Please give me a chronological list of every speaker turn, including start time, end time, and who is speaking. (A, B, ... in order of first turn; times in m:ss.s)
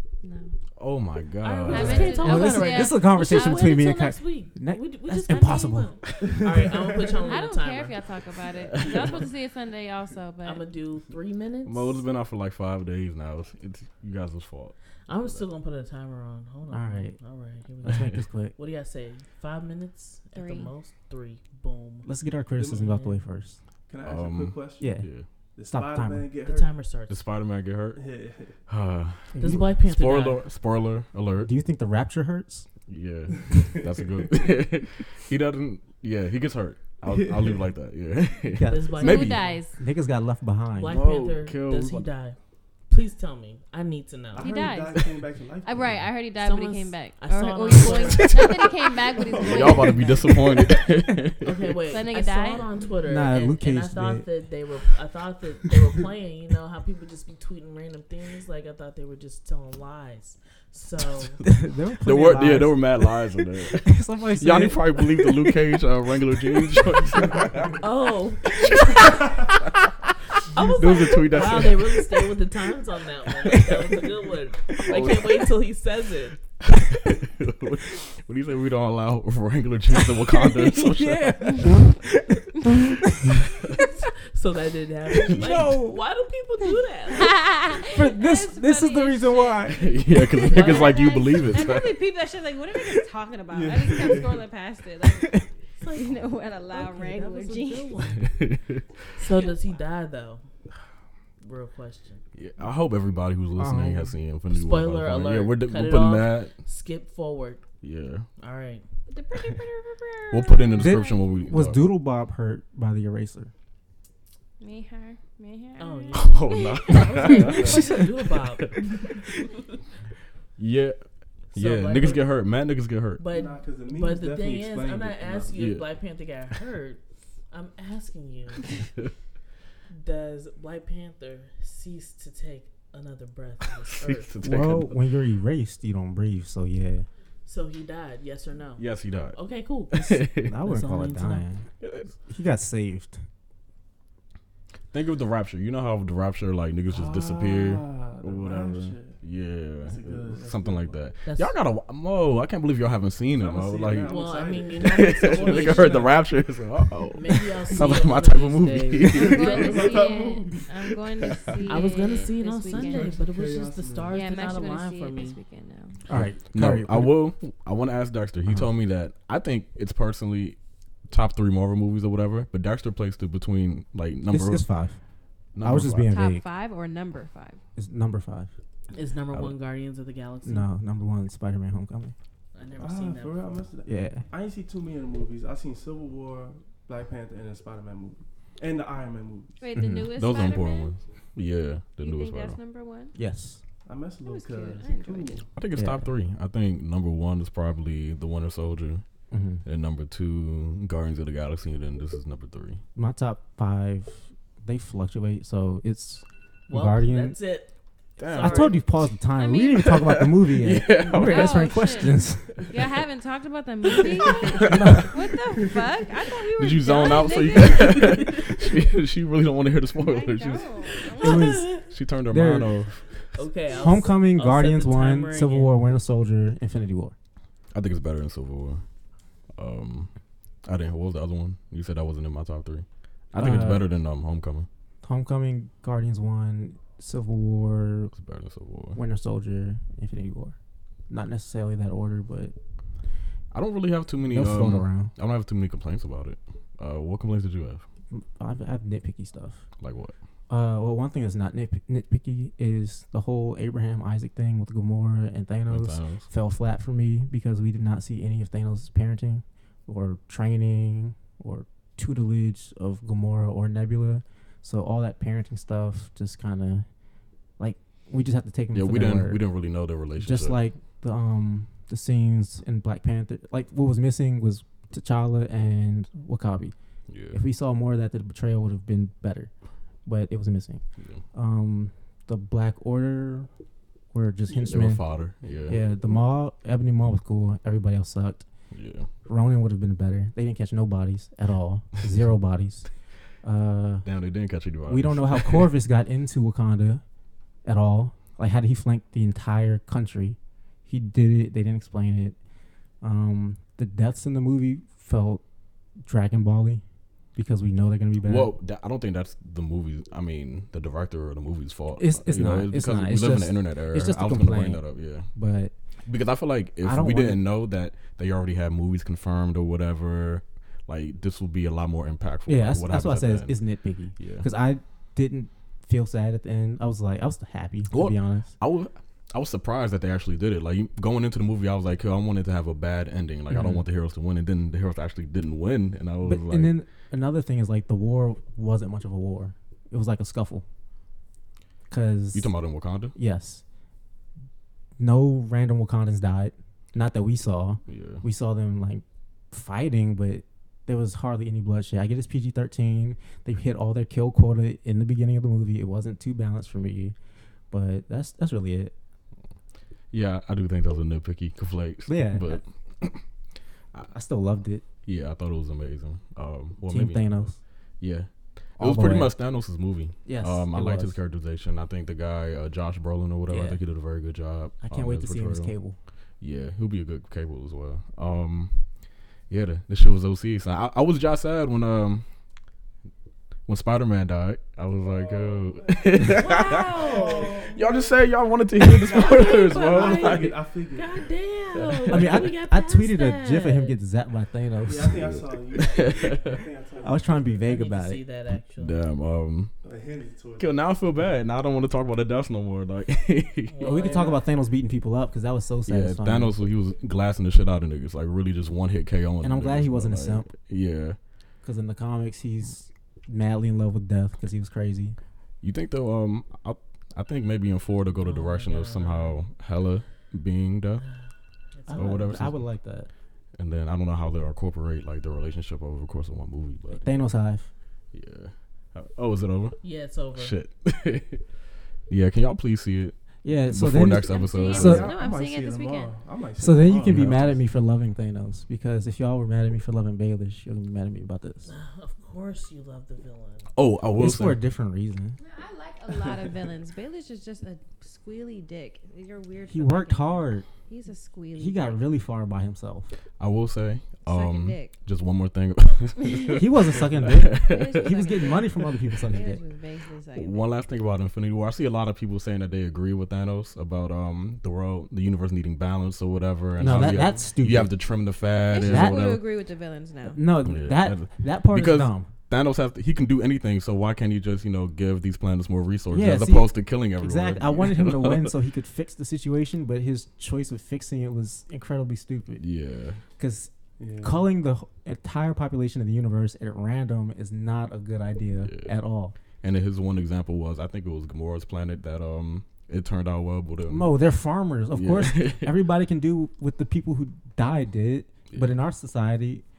0:00.2-0:00.5 A
0:00.8-0:02.3 B
0:01.4-0:08.0 C
0:01.7-0:03.4 A
0:01.8-0:06.0 D
0:06.2-0:07.3 E
0:07.2-0:10.6 A
0:08.7-0:09.2 B
0:08.8-0:09.2 C
0:10.4-0:12.0 C
0:11.7-0:15.4 B
0:15.1-0:22.1 C
0:16.7-0:17.2 D
0:17.8-0:18.6 D
0:20.3-0:20.7 A
0:22.0-0:23.6 D
0:22.6-0:23.0 E
0:22.8-0:23.2 C
0:23.9-0:25.0 E
0:24.0-0:25.3 B
0:24.8-0:25.1 D
0:25.6-0:26.7 E
0:25.7-0:26.3 D
0:26.4-0:27.2 C
0:27.1-0:28.0 B
0:28.0-0:28.6 E
0:28.7-0:31.5 B
0:29.4-0:30.4 C
0:31.4-0:32.7 D
0:32.9-0:39.4 B
0:37.1-0:37.6 E
0:38.6-0:41.0 D
0:38.6-0:39.6 C
0:39.0-0:39.8 A
0:40.8-0:42.4 C
0:40.9-0:42.1 B
0:42.9-0:44.7 C
0:44.3-0:46.1 E
0:44.4-0:50.7 A
0:46.4-0:48.5 C
0:48.0-0:48.7 B
0:49.2-0:50.1 E
0:49.3-0:51.8 B
0:51.4-1:01.4 C
0:51.9-0:52.7 A
0:53.0-0:54.3 D
1:01.4-1:05.6 D
1:02.0-1:07.8 B
1:07.8-1:09.2 C
1:08.5-1:09.7 B
1:10.5-1:16.4 C
1:10.6-1:12.3 B
1:11.1-1:11.5 D
1:13.4-1:14.0 B
1:13.5-1:13.9 D
1:14.8-1:15.5 B
1:14.9-1:15.3 D
1:16.6-1:21.8 B
1:20.0-1:24.0 D
1:23.8-1:27.7 C
1:25.1-1:26.0 D
1:27.1-1:38.0 A
1:27.9-1:30.0 D
1:29.7-1:32.0 B
1:30.5-1:31.1 C
1:33.5-1:34.4 E
1:35.8-1:38.5 C
1:38.2-1:38.8 B
1:39.2-1:40.4 C
1:41.4-1:42.2 C
1:42.3-1:46.6 B
1:43.6-1:44.2 D
1:44.5-1:47.6 C
1:47.8-1:48.3 B
1:48.4-1:48.8 C
1:49.1-1:51.3 A
1:50.3-1:51.9 B
1:50.8-1:53.5 D
1:54.6-1:57.8 A
1:55.8-1:59.2 C
1:56.1-1:58.8 B
1:57.7-1:58.0 D
2:00.6-2:03.2 B
2:01.6-2:02.3 C
2:03.2-2:08.7 C
2:03.3-2:05.6 E
2:05.5-2:05.8 B
2:09.9-2:14.4 C
2:14.0-2:15.0 B
2:14.4-2:17.1 D
2:17.5-2:21.4 C
2:18.8-2:20.5 B
2:20.5-2:21.7 D
2:21.8-2:22.1 B
2:22.3-2:23.2 D
2:24.9-2:34.2 B
2:26.9-2:29.2 E
2:29.8-2:31.0 E
2:31.2-2:31.5 C
2:33.4-2:36.2 E
2:34.0-2:36.2 C
2:34.8-2:40.0 B
2:37.1-2:40.2 C
2:39.1-2:40.9 E
2:39.1-2:43.2 A
2:41.6-2:45.4 C
2:42.7-2:44.2 E
2:44.1-2:46.0 A
2:46.1-2:47.2 D
2:46.1-2:50.6 B
2:51.1-2:54.7 B
2:54.3-2:55.0 D
2:55.6-2:56.1 B
2:55.6-2:56.4 D
2:56.1-2:57.6 A
2:57.8-2:58.5 D
2:58.9-3:00.7 C
3:00.4-3:02.1 D
3:02.5-3:03.6 C
3:02.8-3:09.6 E
3:03.9-3:04.3 D
3:09.6-3:11.0 A
3:09.8-3:10.1 D
3:10.1-3:12.6 B
3:12.0-3:13.2 A
3:13.2-3:13.6 D
3:13.9-3:15.5 E
3:14.2-3:15.4 A
3:15.6-3:19.0 B
3:15.8-3:16.1 D
3:19.3-3:19.6 D
3:19.6-3:22.8 B
3:23.0-3:27.4 D
3:26.7-3:28.8 C
3:28.2-3:28.8 B
3:28.4-3:32.6 D
3:29.4-3:29.9 A
3:29.8-3:31.9 B
3:31.2-3:38.3 A
3:34.2-3:34.7 C
3:34.4-3:34.8 B
3:34.6-3:35.2 D
3:36.6-3:41.0 B
3:40.0-3:41.5 A
3:41.1-3:41.9 C
3:41.2-3:42.8 D
3:41.9-3:43.5 B
3:43.4-3:45.8 C
3:43.8-3:47.2 D
3:47.7-3:48.8 B
3:49.6-3:50.1 B
3:50.6-3:54.7 B
3:53.4-3:53.9 D
3:55.0-3:58.1 D
3:58.2-3:59.0 B
3:59.0-4:00.6 D
4:01.1-4:02.6 D
4:03.5-4:07.9 B
4:04.3-4:05.1 D
4:08.1-4:09.7 D
4:09.8-4:10.1 B
4:10.5-4:26.9 D
4:15.7-4:16.3 B
4:27.6-4:29.4 D
4:28.7-4:30.6 B
4:30.2-4:36.8 D
4:37.1-4:37.4 B
4:37.3-4:39.5 D
4:40.0-4:43.5 D
4:44.1-4:45.1 D
4:44.6-4:45.8 B
4:45.6-4:48.5 D
4:48.7-4:49.1 B
4:49.2-4:52.9 D
4:53.4-4:54.1 D
4:54.0-4:55.7 B
4:54.9-4:57.0 D
4:57.6-5:02.4 D
5:03.0-5:05.4 D
5:06.0-5:06.8 D
5:07.4-5:08.5 D
5:08.2-5:15.3 B
5:12.0-5:15.7 D
5:16.1-5:23.6 B
5:16.8-5:17.4 D
5:22.5-5:28.5 D
5:24.2-5:24.5 B
5:27.9-5:36.8 B
5:33.5-5:33.8 D
5:36.2-5:40.6 D
5:41.9-5:42.5 D
5:42.3-5:43.2 B
5:43.2-5:43.6 D
5:45.0-5:57.2 D
5:47.9-5:48.2 B
5:57.7-5:58.9 D
6:00.1-6:03.2 B
6:02.1-6:02.6 D
6:04.1-6:04.8 D
6:05.0-6:15.8 B
6:06.9-6:07.6 D
6:08.8-6:09.4 D
6:10.2-6:11.2 D
6:13.5-6:13.8 D
6:14.8-6:16.0 D
6:16.4-6:18.8 B
6:19.5-6:22.2 B
6:23.7-6:27.2 B
6:25.0-6:26.1 E
6:26.4-6:27.7 C
6:26.7-6:27.2 A
6:26.8-6:28.0 E
6:27.7-6:30.6 B
6:29.1-6:34.0 C
6:29.2-6:31.3 E
6:31.8-6:32.4 B
6:32.1-6:35.3 D
6:34.8-6:37.6 E
6:35.0-6:36.6 B
6:37.0-6:38.2 D
6:37.6-6:39.0 C
6:38.8-6:39.7 B
6:39.8-6:40.7 E
6:40.6-6:43.8 B
6:43.7-6:44.4 C
6:43.8-6:46.6 D
6:45.9-6:51.2 B
6:49.4-6:50.5 D
6:51.6-6:55.2 D
6:55.6-7:01.0 B
6:58.2-6:59.4 C
7:01.0-7:02.4 C
7:01.9-7:03.1 D
7:02.0-7:02.6 B
7:03.6-7:07.1 B
7:06.9-7:07.7 D
7:08.1-7:09.8 B
7:09.8-7:10.6 C
7:10.3-7:11.4 B
7:12.1-7:15.1 B
7:13.4-7:15.1 D
7:14.2-7:16.2 A
7:14.6-7:17.6 E
7:16.6-7:21.7 D
7:17.0-7:17.5 B
7:21.7-7:23.7 C
7:23.8-7:24.6 B
7:24.2-7:25.4 D
7:25.4-7:32.0 A
7:29.7-7:30.7 D
7:31.6-7:33.1 D
7:33.4-7:38.2 B
7:34.2-7:34.9 A
7:36.5-7:39.6 D
7:37.5-7:40.6 A
7:38.8-7:39.2 B
7:40.4-7:49.4 B
7:46.8-7:48.0 D
7:48.7-7:50.4 A
7:48.8-7:49.3 D
7:50.3-7:52.3 D
7:50.6-7:58.5 B
7:56.1-8:02.7 D
8:02.6-8:03.2 B
8:03.4-8:09.4 D
8:04.0-8:04.4 E
8:08.6-8:09.0 B
8:09.6-8:14.1 B
8:13.9-8:19.6 D
8:14.9-8:15.7 B